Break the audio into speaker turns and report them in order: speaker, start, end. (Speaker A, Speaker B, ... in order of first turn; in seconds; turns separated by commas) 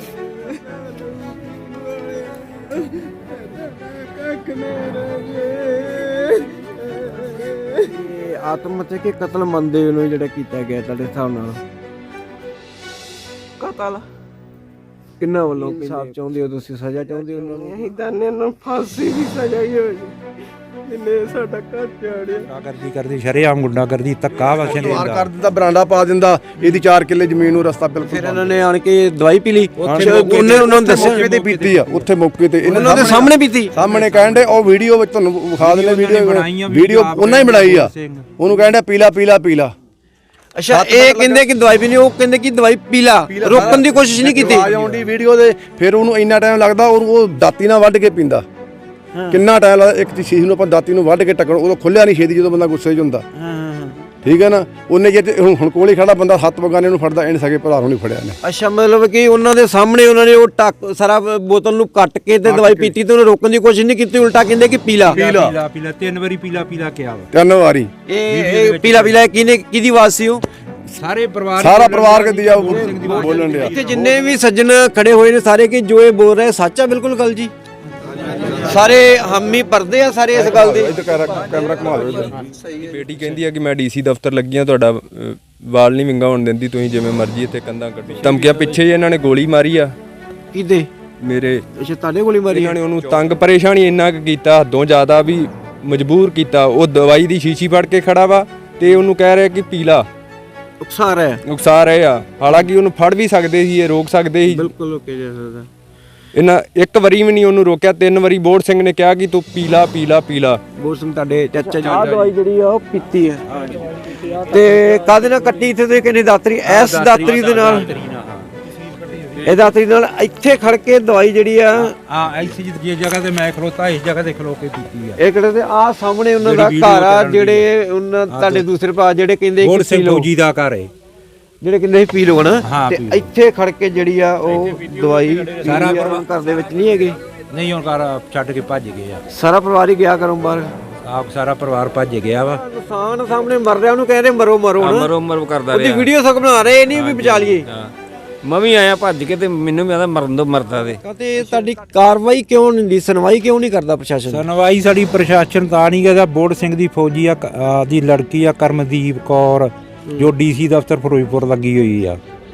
Speaker A: 0.2-2.0, Speaker A: 2.8-7.7, Speaker B: 7.8-11.6, Speaker A: 13.6-14.0, Speaker B: 15.2-17.8, Speaker A: 17.4-20.1, Speaker A: 20.9-22.3, Speaker C: 22.4-25.3, Speaker D: 24.6-28.6, Speaker B: 28.0-31.2, Speaker C: 29.8-32.1, Speaker D: 29.9-39.7, Speaker C: 32.6-34.6, Speaker B: 32.7-33.8, Speaker C: 35.6-38.3, Speaker B: 40.6-44.7, Speaker D: 40.7-41.4, Speaker D: 43.3-48.5, Speaker C: 43.5-43.9, Speaker C: 44.5-45.0, Speaker B: 49.1-49.4, Speaker D: 49.3-53.2, Speaker B: 53.4-54.0, Speaker D: 54.2-58.4, Speaker B: 58.4-65.2, Speaker D: 62.5-62.9, Speaker C: 65.1-67.3, Speaker D: 65.1-65.5, Speaker D: 67.3-67.9, Speaker B: 68.1-70.4, Speaker C: 68.3-69.2, Speaker C: 71.0-74.1, Speaker D: 71.6-73.8, Speaker B: 73.6-77.5, Speaker B: 78.7-80.9, Speaker D: 80.3-82.4, Speaker E: 82.7-89.9, Speaker B: 90.5-90.9, Speaker E: 91.2-91.6, Speaker B: 91.8-92.8, Speaker E: 92.5-100.1, Speaker B: 100.8-101.4, Speaker E: 101.5-104.7, Speaker B: 104.5-105.7, Speaker E: 106.3-110.6, Speaker B: 110.8-113.4, Speaker C: 111.7-112.3, Speaker C: 113.5-113.8, Speaker B: 114.4-117.9, Speaker C: 116.7-119.5, Speaker B: 119.4-121.9, Speaker C: 121.8-125.2, Speaker B: 125.2-130.3, Speaker C: 126.4-127.7, Speaker C: 128.3-128.7, Speaker C: 129.6-130.9, Speaker B: 131.6-137.2, Speaker C: 132.6-133.3, Speaker C: 135.6-136.2, Speaker C: 137.5-139.2, Speaker B: 139.3-140.7, Speaker C: 141.0-142.6, Speaker B: 142.5-145.1, Speaker F: 144.8-146.1, Speaker B: 145.7-147.7, Speaker C: 147.0-147.6, Speaker F: 147.2-147.9, Speaker F: 148.4-151.0, Speaker B: 151.0-154.4, Speaker C: 154.3-162.2